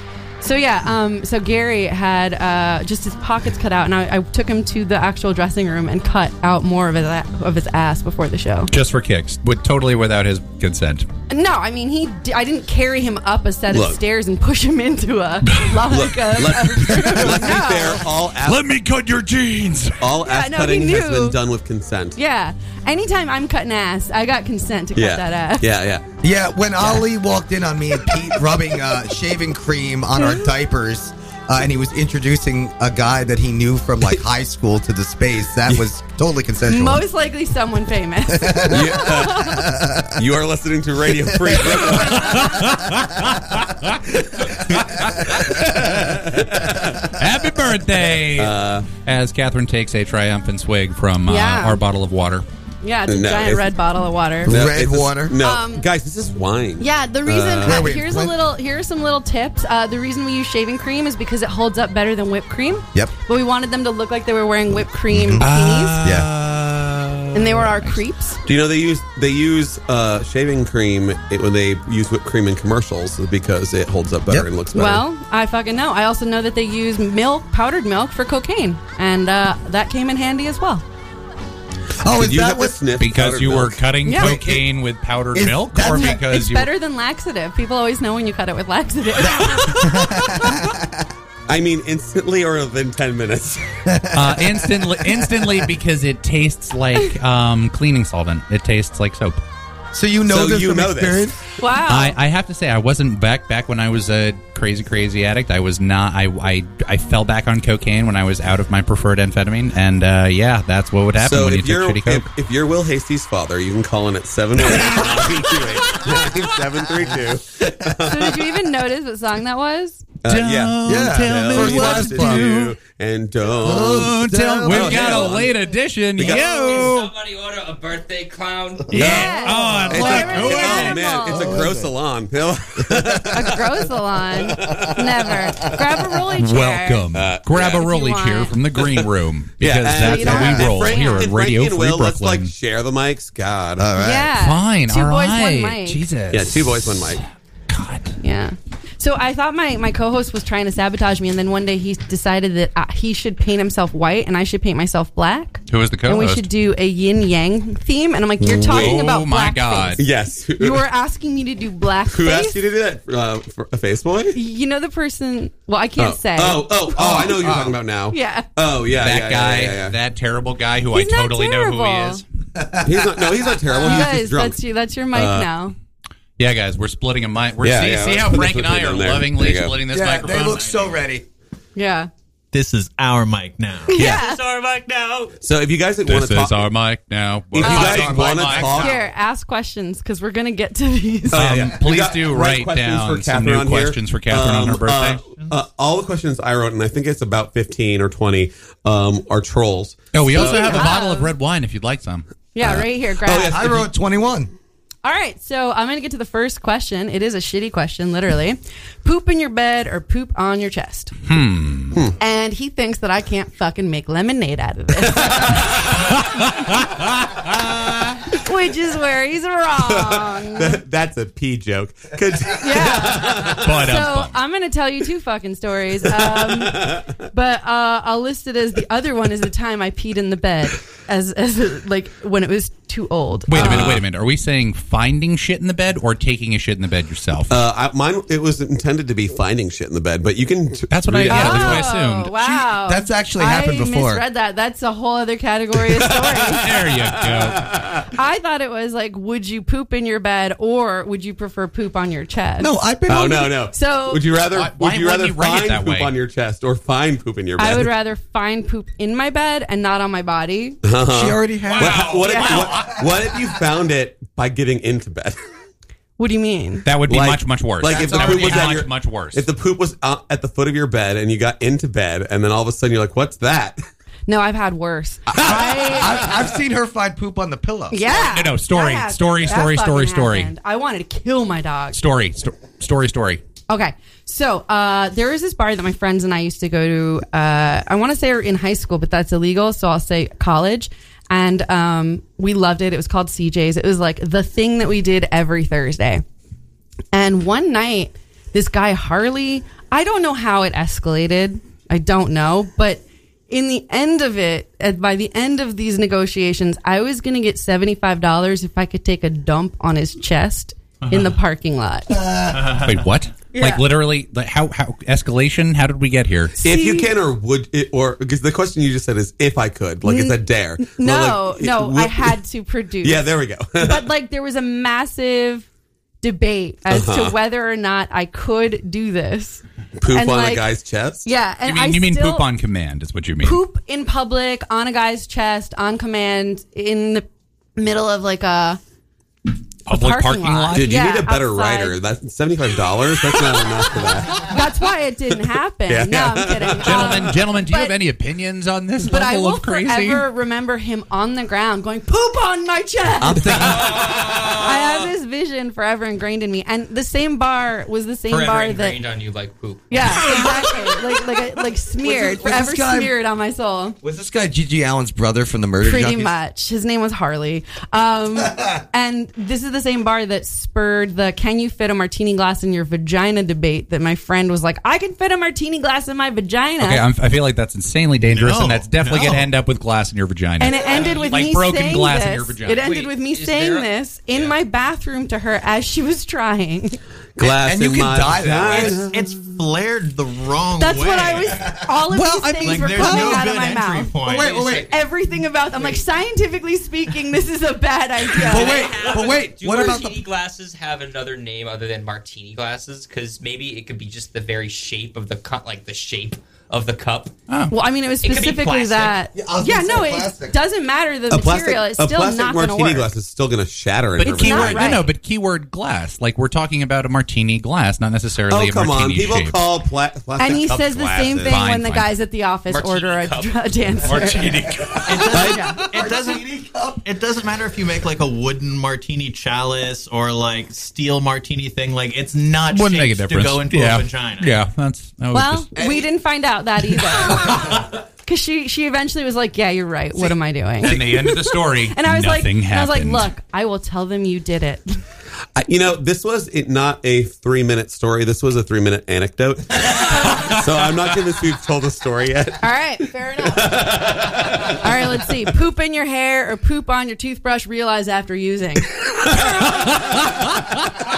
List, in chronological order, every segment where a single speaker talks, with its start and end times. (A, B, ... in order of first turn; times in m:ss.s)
0:00.4-0:08.7 A
0:08.7-0:11.1 B
0:11.3-0:18.1 A
0:13.7-0:14.0 C
0:15.8-0:18.7 C
0:18.4-0:20.0 B
0:20.0-0:22.2 C
0:20.2-0:21.4 A
0:22.2-0:25.6 A
0:24.9-0:26.0 C
0:26.2-0:37.0 D
0:36.7-0:39.7 A
0:38.3-0:40.2 D
0:38.7-0:39.6 C
0:40.2-0:42.6 C
0:41.3-0:41.8 D
0:42.0-0:44.0 B
0:44.2-0:47.1 C
0:44.8-0:45.4 B
0:47.1-0:52.4 B
0:48.2-0:48.9 C
0:51.2-0:51.8 A
0:52.8-0:54.6 A
0:53.1-0:53.7 C
0:54.4-0:55.4 D
0:54.4-0:57.9 C
0:55.4-0:55.8 A
0:56.8-1:06.0 A
0:57.6-0:58.4 D
1:05.1-1:06.3 D
1:05.4-1:08.0 B
1:07.3-1:08.4 A
1:08.4-1:15.0 C
1:14.7-1:20.8 A
1:22.0-1:22.8 D
1:22.0-1:23.8 C
1:23.0-1:26.7 B
1:24.0-1:24.4 A
1:24.1-1:24.7 D
1:25.3-1:26.2 D
1:25.9-1:30.4 A
1:29.2-1:31.0 D
1:31.5-1:33.8 C
1:33.8-1:35.7 D
1:34.1-1:39.4 B
1:39.9-1:41.4 D
1:40.3-1:41.2 C
1:41.6-1:42.1 A
1:41.9-1:52.3 B
1:51.2-1:58.5 C
1:54.6-1:56.4 B
1:58.0-2:00.0 A
2:00.2-2:05.6 C
2:00.3-2:02.7 B
2:00.8-2:02.5 D
2:03.6-2:05.2 D
2:03.7-2:07.1 B
2:06.2-2:06.9 C
2:06.2-2:09.0 E
2:08.9-2:11.0 B
2:08.9-2:11.5 A
2:08.9-2:09.4 C
2:09.0-2:11.9 D
2:09.9-2:13.6 C
2:12.9-2:13.2 D
2:13.3-2:18.6 A
2:14.3-2:15.7 C
2:16.4-2:22.5 B
2:17.1-2:17.8 C
2:18.8-2:19.0 C
2:19.6-2:23.9 C
2:20.0-2:21.2 A
2:23.8-2:24.3 D
2:24.0-2:26.0 A
2:24.3-2:28.2 B
2:26.3-2:27.2 C
2:28.2-2:40.0 A
2:35.7-2:36.4 B
2:38.4-2:39.0 C
2:38.7-2:40.0 B
2:40.0-2:40.8 C
2:40.6-2:42.6 A
2:42.1-2:44.4 C
2:44.3-2:47.3 A
2:46.0-2:49.9 C
2:46.9-2:47.8 D
2:48.1-2:48.5 A
2:48.9-2:52.2 B
2:50.9-2:52.2 A
2:52.6-2:53.5 D
2:52.8-2:54.6 C
2:53.8-2:55.7 A
2:55.1-2:55.5 C
2:56.4-3:00.8 B
2:57.6-2:59.8 C
2:59.9-3:01.2 D
3:00.0-3:00.9 E
3:01.8-3:02.1 A
3:02.5-3:04.0 F
3:03.8-3:04.4 A
3:03.9-3:05.4 E
3:05.4-3:06.7 C
3:06.0-3:08.9 B
3:07.5-3:09.1 C
3:07.6-3:09.0 D
3:07.6-3:07.9 A
3:08.8-3:11.4 A
3:11.3-3:20.9 C
3:11.3-3:15.2 B
3:20.1-3:22.2 B
3:20.3-3:21.3 A
3:22.5-3:23.6 A
3:22.6-3:23.9 C
3:23.2-3:24.5 D
3:25.0-3:31.1 A
3:31.3-3:32.0 B
3:32.2-3:35.9 A
3:35.9-3:38.1 B
3:38.3-3:40.8 A
3:39.8-3:43.7 C
3:42.6-3:54.0 A
3:43.6-3:44.3 B
3:46.1-3:47.1 C
3:53.5-3:57.6 B
3:53.5-3:54.0 C
3:57.5-4:01.9 C
4:00.9-4:02.7 B
4:01.3-4:06.7 A
4:02.9-4:04.2 D
4:06.5-4:07.6 B
4:07.4-4:08.0 C
4:08.1-4:12.7 A
4:12.6-4:13.6 D
4:13.1-4:17.9 C
4:13.7-4:14.2 A
4:14.5-4:16.1 B
4:17.6-4:20.8 A
4:20.8-4:25.4 C
4:21.1-4:23.4 D
4:21.8-4:22.7 A
4:26.2-4:26.8 A
4:26.8-4:29.5 B
4:27.1-4:33.8 C
4:27.9-4:28.8 D
4:34.3-4:36.2 A
4:35.3-4:36.3 C
4:35.4-4:38.3 D
4:37.9-4:42.0 A
4:38.2-4:40.5 B
4:41.9-4:43.4 B
4:43.7-4:56.2 A
4:57.1-5:12.2 A
5:11.0-5:11.3 F
5:12.2-5:12.6 D
5:12.5-5:13.0 F
5:12.8-5:16.5 B
5:13.5-5:13.8 A
5:16.6-5:17.1 A
5:16.6-5:22.4 C
5:20.0-5:25.6 A
5:23.0-5:24.1 C
5:26.2-5:30.7 A
5:26.9-5:27.3 C
5:30.0-5:31.3 C
5:31.2-5:32.4 A
5:31.6-5:33.6 B
5:33.4-5:37.2 A
5:37.8-5:38.8 A
5:39.9-5:41.0 B
5:39.9-5:42.0 A
5:40.7-5:44.6 C
5:44.4-5:48.0 A
5:45.9-5:47.2 C
5:46.8-5:50.2 B
5:49.0-5:53.6 A
5:53.2-5:54.6 C
5:53.4-5:53.9 D
5:54.6-5:59.0 A
5:58.3-5:59.9 E
5:59.9-6:04.0 A
6:02.0-6:03.1 D
6:04.0-6:06.3 D
6:05.8-6:17.0 A
6:16.8-6:22.9 B
6:18.2-6:19.5 F
6:20.6-6:27.0 A
6:20.9-6:21.1 E
6:22.7-6:24.6 E
6:27.4-6:29.4 C
6:27.4-6:29.1 D
6:28.7-6:31.6 F
6:30.8-6:34.1 A
6:31.6-6:33.5 D
6:32.6-6:34.8 F
6:34.2-6:34.9 D
6:34.3-6:34.8 E
6:34.8-6:38.9 A
6:38.4-6:40.2 D
6:38.4-6:47.3 E
6:47.7-6:53.1 A
6:48.2-6:49.2 E
6:49.3-6:50.6 D
6:51.3-6:55.0 C
6:54.2-6:59.6 B
6:54.2-6:55.1 A
6:58.5-7:01.6 C
7:00.4-7:04.6 A
7:01.4-7:02.1 B
7:02.7-7:03.6 E
7:04.1-7:05.0 B
7:04.8-7:07.0 D
7:05.0-7:14.6 F
7:05.2-7:05.8 A
7:12.7-7:15.6 B
7:15.3-7:25.0 A
7:15.8-7:16.0 D
7:20.8-7:23.3 B
7:25.6-7:32.7 C
7:32.6-7:33.8 A
7:33.4-7:34.9 C
7:34.8-7:38.9 A
7:39.7-7:40.1 B